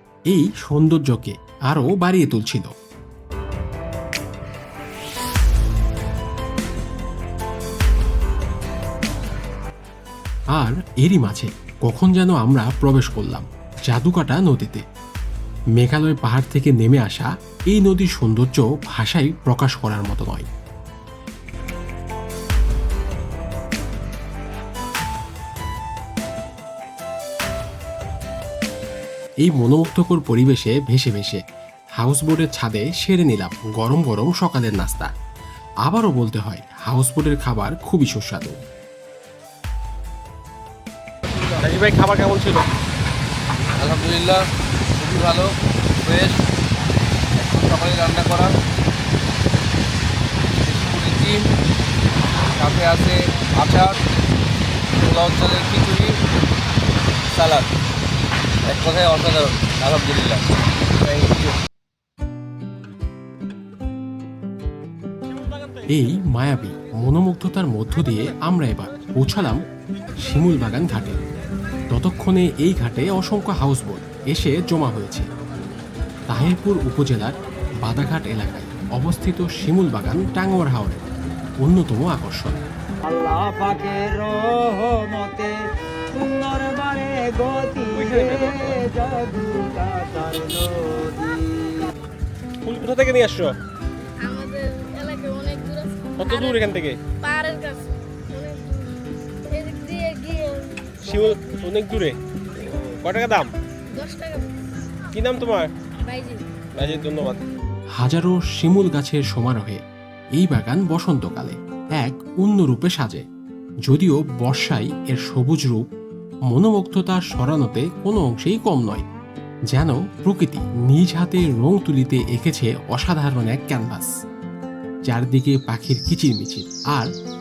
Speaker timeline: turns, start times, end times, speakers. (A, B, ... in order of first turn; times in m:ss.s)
0:00.3-0:02.7 A
0:10.5-0:14.8 A
0:15.8-0:20.5 A
0:29.4-0:31.4 A
0:32.0-0:35.1 A
0:35.8-0:38.6 A
0:41.6-0:42.6 B
0:43.8-0:44.4 C
0:45.0-0:45.5 C
0:46.0-0:46.4 C
0:47.4-0:48.5 C
0:50.6-0:51.4 C
0:52.6-0:54.0 C
0:54.9-0:56.1 C
0:57.3-0:57.7 C
0:58.7-1:00.4 C
1:01.2-1:01.5 C
1:05.9-1:09.6 A
1:10.2-1:11.2 A
1:11.9-1:15.3 A
1:16.3-1:21.0 A
1:21.6-1:22.6 A
1:23.0-1:25.6 D
1:26.1-1:31.7 D
1:27.9-1:28.8 B
1:32.6-1:33.5 B
1:34.2-1:41.4 E
1:36.2-1:37.0 B
1:41.0-1:43.5 B
1:43.9-1:44.8 E
1:45.1-1:45.7 B
1:46.0-1:46.4 E
1:46.8-1:47.4 B
1:48.0-1:49.8 A
1:50.3-1:53.2 A
1:53.8-1:55.9 A
1:56.5-1:59.0 A
1:59.7-2:04.1 A
2:05.1-2:07.1 A